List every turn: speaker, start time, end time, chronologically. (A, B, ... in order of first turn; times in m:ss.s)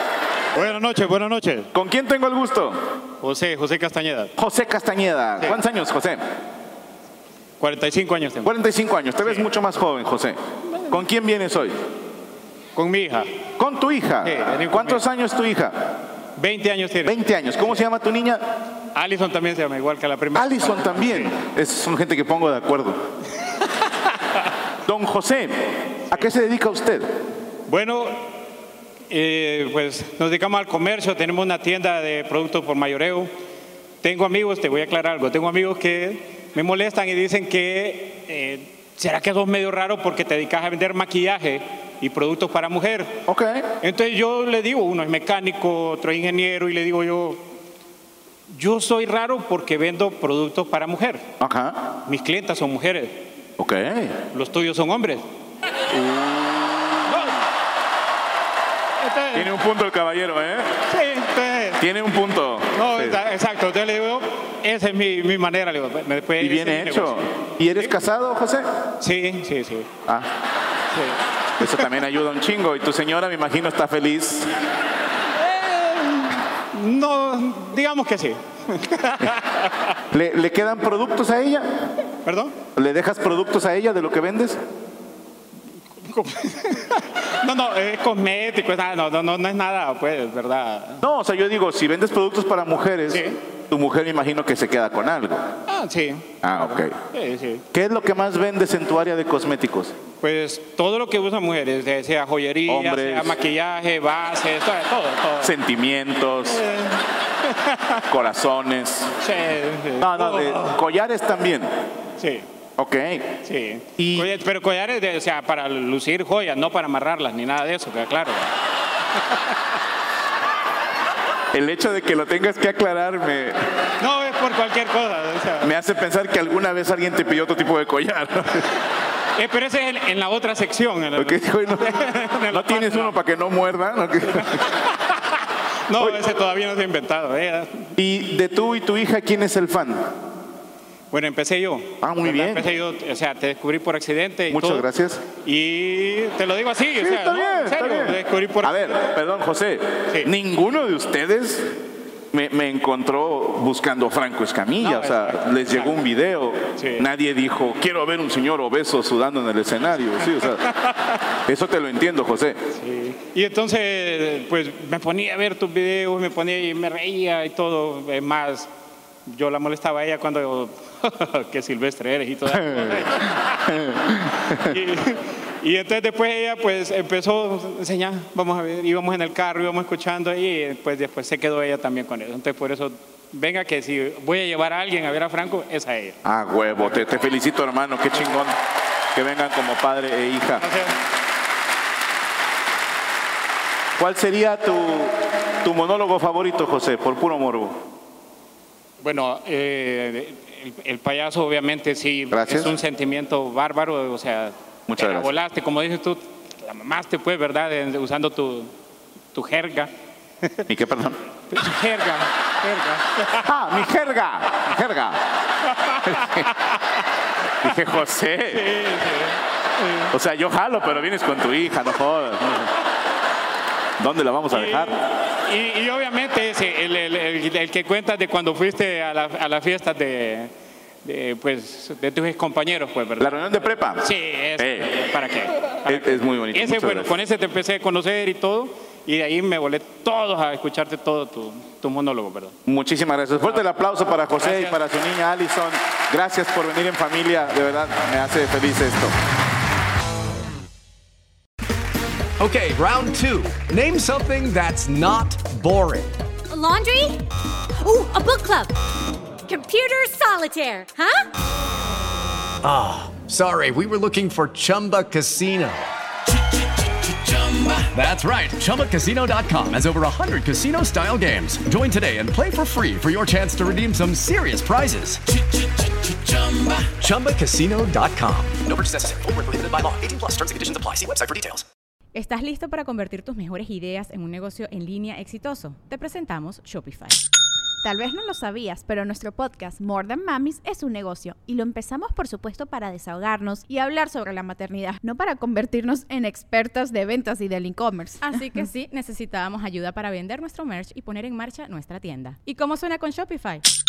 0:00.5-0:01.7 A
0:01.7-0:02.8 B
0:03.2-0:04.3 A
0:04.4-0:06.2 B
0:07.6-0:08.5 A
0:08.4-0:10.4 B
0:10.9-0:11.7 B
0:12.8-0:13.3 A
0:13.6-0:16.0 B
0:14.2-0:15.0 A
0:16.4-0:17.2 A
0:17.0-0:18.4 B
0:18.9-0:21.4 A
0:20.3-0:23.0 B
0:24.8-0:27.1 B
0:27.7-0:28.2 A
0:29.1-0:33.3 A
0:34.0-0:43.2 A
0:43.3-0:43.7 B
0:43.8-0:47.4 A
0:48.5-0:51.2 A
0:51.4-0:51.8 B
0:52.0-0:53.3 A
0:53.6-0:54.2 B
0:54.3-0:55.2 A
0:55.9-0:57.0 B
0:57.1-0:57.4 A
0:59.0-0:59.5 A
0:59.3-1:00.7 B
1:00.9-1:01.8 A
1:01.8-1:03.2 B
1:02.7-1:07.2 A
1:06.4-1:08.6 B
1:09.0-1:09.9 A
1:10.9-1:11.8 A
1:11.6-1:14.5 B
1:15.4-1:19.9 A
1:20.1-1:21.9 B
1:22.2-1:22.5 A
1:22.7-1:24.6 B
1:26.0-1:31.0 A
1:31.0-1:35.4 B
1:33.1-1:33.4 A
1:35.7-1:37.6 A
1:36.4-1:37.0 B
1:37.7-1:39.9 B
1:40.2-1:45.5 A
1:42.7-1:43.4 B
1:45.4-1:46.6 B
1:46.5-1:48.0 A
1:48.1-1:49.1 B
1:49.2-1:50.8 A
1:50.0-1:51.7 B
1:52.2-1:52.4 A
1:52.8-1:53.4 B
1:53.4-1:58.5 A
1:54.0-1:54.3 B
1:59.2-1:59.6 A
2:01.5-2:03.6 B
2:04.0-2:05.7 A
2:05.6-2:08.7 B
2:09.4-2:13.2 A
2:11.2-2:11.9 B
2:12.5-2:14.7 B
2:14.8-2:17.9 A
2:18.0-2:20.0 B
2:21.1-2:24.8 A
2:22.0-2:22.7 B
2:24.5-2:25.2 B
2:25.4-2:28.9 A
2:27.0-2:31.8 B
2:32.3-2:40.7 B
2:34.8-2:36.0 A
2:36.8-2:37.0 A
2:40.4-2:41.2 A
2:41.4-2:42.6 B
2:42.8-2:48.7 A
2:49.3-2:53.8 A
2:52.6-2:53.1 B
2:53.7-2:54.7 B
2:54.5-3:06.2 A
3:06.2-3:08.6 B
3:06.8-3:07.2 A
3:08.2-3:08.4 A
3:09.1-3:10.6 B
3:10.6-3:10.9 A
3:14.0-3:17.8 B
3:19.0-3:28.7 A
3:22.3-3:22.7 B
3:24.9-3:25.3 B
3:29.3-3:29.9 A
3:30.7-3:31.2 B
3:31.5-3:33.4 A
3:33.4-3:35.2 B
3:35.7-3:37.0 A
3:36.0-3:36.5 B
3:37.6-3:38.7 B
3:38.5-3:40.1 A
3:40.1-3:42.7 B
3:44.0-3:45.0 B
3:44.5-3:50.5 A
3:51.0-3:53.4 A
3:53.2-3:55.0 B
3:54.0-4:02.6 A
3:55.8-3:57.1 B
4:02.6-4:09.1 B
4:04.4-4:04.8 A
4:12.4-4:16.1 C
4:16.5-4:17.2 D
4:17.8-4:18.7 D
4:19.4-4:21.2 D
4:22.6-4:25.8 C
4:27.3-4:35.4 C
4:36.0-4:41.6 C
4:42.1-4:47.2 E
4:47.8-4:58.3 F
4:58.2-5:03.6 E